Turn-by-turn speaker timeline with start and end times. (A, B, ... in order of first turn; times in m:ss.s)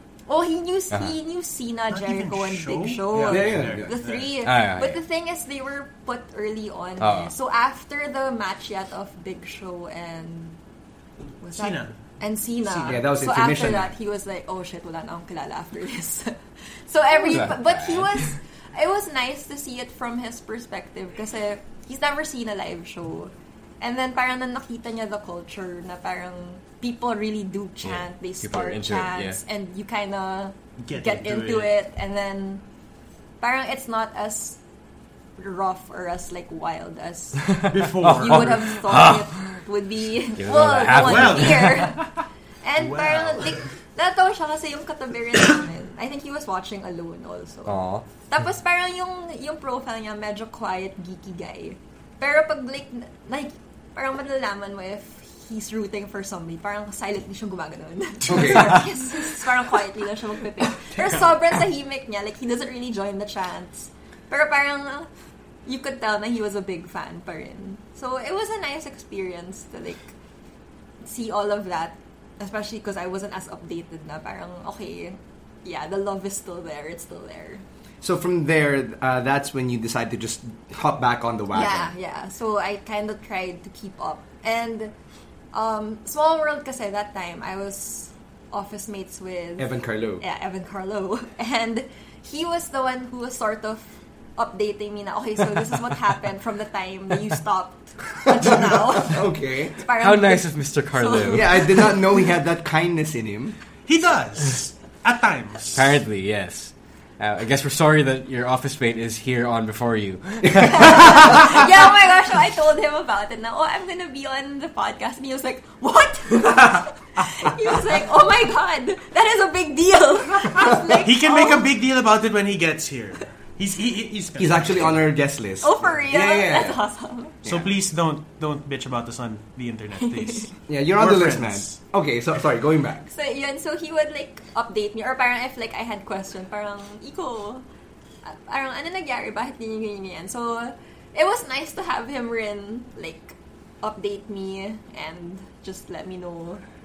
0:00.3-0:10.6 A
0:01.9-0:04.3 B
0:03.1-0:04.0 C
0:04.4-0:05.0 D
0:07.0-0:07.3 D
0:11.4-0:32.6 A
0:11.5-0:12.0 B
0:12.7-0:13.0 B
0:12.8-0:13.9 C
0:17.2-0:18.3 D
0:27.8-0:29.4 D
0:30.8-0:31.8 B
0:33.4-0:34.6 A
0:35.4-0:42.1 A
0:37.5-0:39.6 D
0:37.7-0:38.8 B
0:40.4-0:42.0 D
0:41.0-0:42.1 B
0:42.6-1:05.1 A
0:42.8-0:43.7 B
0:47.7-0:48.0 D
0:58.2-0:58.9 C
1:05.7-1:10.1 A
1:11.0-1:17.6 A
1:18.0-1:21.9 C
1:21.5-1:24.9 A
1:25.5-1:42.2 A
1:29.6-1:30.2 C
1:38.3-1:39.8 C
1:40.0-1:41.8 D
1:41.3-1:43.6 C
1:43.9-1:46.0 B
1:45.7-1:51.7 D
1:50.4-1:51.3 C
1:50.6-2:01.7 A
2:00.9-2:05.1 B
2:04.4-2:06.8 C
2:05.6-2:07.4 A
2:07.4-2:07.7 C
2:07.5-2:11.8 B
2:10.7-2:13.1 C
2:13.1-2:17.6 A
2:18.2-2:26.6 A